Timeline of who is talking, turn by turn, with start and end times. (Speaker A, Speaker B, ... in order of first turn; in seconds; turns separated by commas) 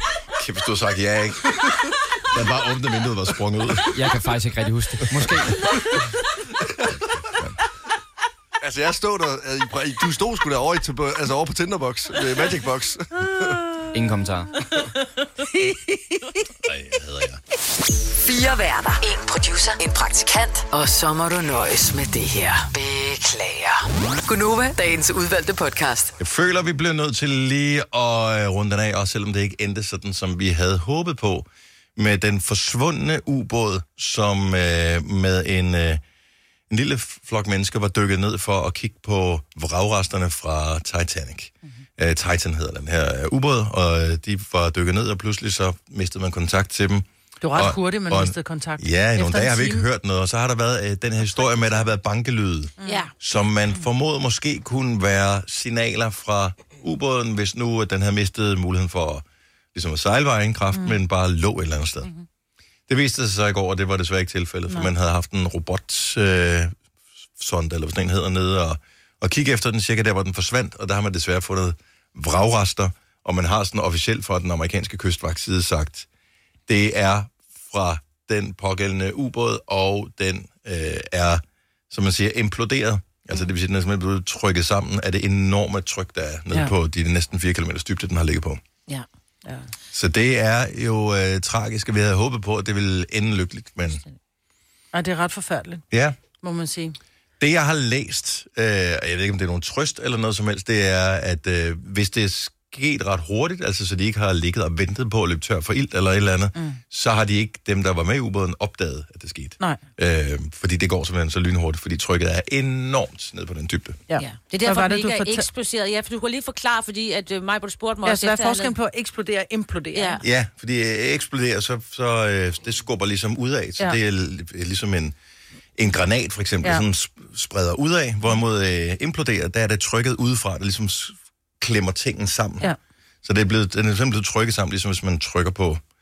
Speaker A: 0.3-1.4, Speaker A: 2.3-4.0, Speaker B: 3.9-5.7, Speaker A: 7.3-7.6, Speaker C: 8.6-13.6, Speaker B: 13.9-14.6, Speaker D: 15.6-16.2, Speaker A: 16.6-17.4, Speaker E: 18.2-26.1, Speaker A: 26.2-36.0, Speaker A: 36.7-62.1, Speaker D: 47.4-49.9, Speaker D: 52.8-53.1, Speaker F: 52.9-53.1, Speaker A: 62.9-66.7, Speaker A: 67.4-76.1, Speaker A: 76.7-88.6, Speaker A: 89.9-94.0, Speaker D: 94.9-95.8, Speaker A: 95.9-96.2, Speaker D: 96.4-97.0, Speaker A: 97.4-114.0, Speaker D: 114.1-115.5, Speaker F: 114.2-118.7, Speaker D: 118.0-120.2, Speaker F: 120.0-120.2, Speaker A: 120.2-125.2, Speaker A: 125.8-132.7, Speaker A: 133.2-135.8